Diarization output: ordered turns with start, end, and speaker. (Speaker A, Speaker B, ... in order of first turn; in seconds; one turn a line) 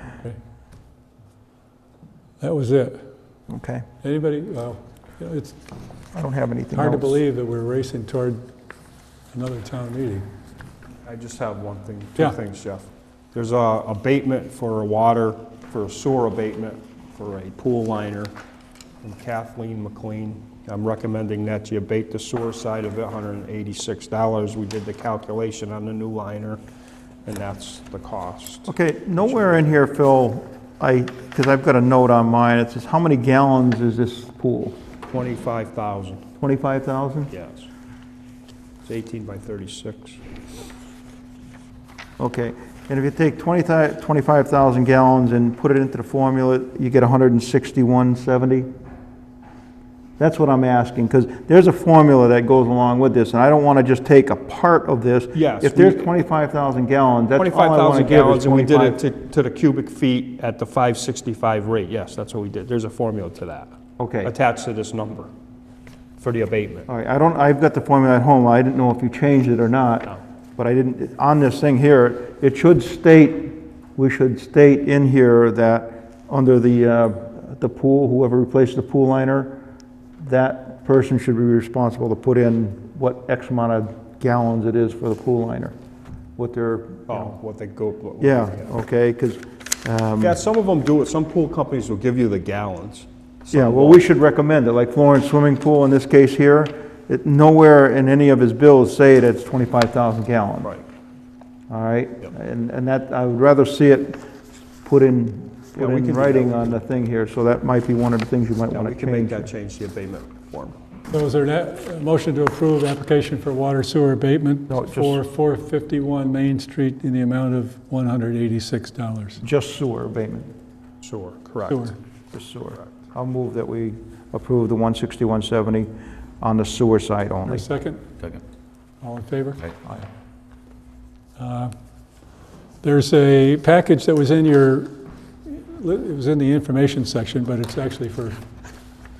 Speaker A: 2.4-3.0
Speaker B: 3.5-3.9
Speaker A: 4.0-5.6
Speaker B: 6.1-7.2
Speaker A: 6.7-8.4
Speaker A: 9.3-10.2
Speaker C: 11.0-18.3
Speaker C: 19.0-26.6
Speaker C: 27.2-29.7
Speaker B: 28.6-34.8
Speaker C: 35.1-36.3
Speaker B: 36.4-37.3
Speaker C: 37.3-37.7
Speaker C: 38.8-40.2
Speaker B: 42.2-48.7
Speaker B: 50.2-59.0
Speaker C: 55.3-56.2
Speaker C: 57.4-65.3
Speaker B: 64.0-64.3
Speaker C: 66.2-66.9
Speaker B: 66.9-79.6
Speaker B: 80.2-85.7
Speaker B: 86.4-87.3
Speaker C: 87.1-88.7
Speaker B: 88.2-90.4
Speaker C: 90.2-94.1
Speaker B: 93.5-100.7
Speaker B: 101.7-104.2
Speaker B: 104.8-109.5
Speaker C: 105.7-106.8
Speaker C: 108.7-110.8
Speaker A: 111.1-119.4
Speaker B: 114.7-115.2
Speaker B: 119.4-120.5
Speaker C: 121.0-122.0
Speaker A: 121.7-122.0
Speaker B: 122.3-125.9
Speaker B: 126.4-127.7
Speaker A: 127.5-128.3
Speaker A: 129.0-129.7
Speaker A: 131.4-131.7
Speaker A: 132.8-134.9
Speaker A: 135.4-138.4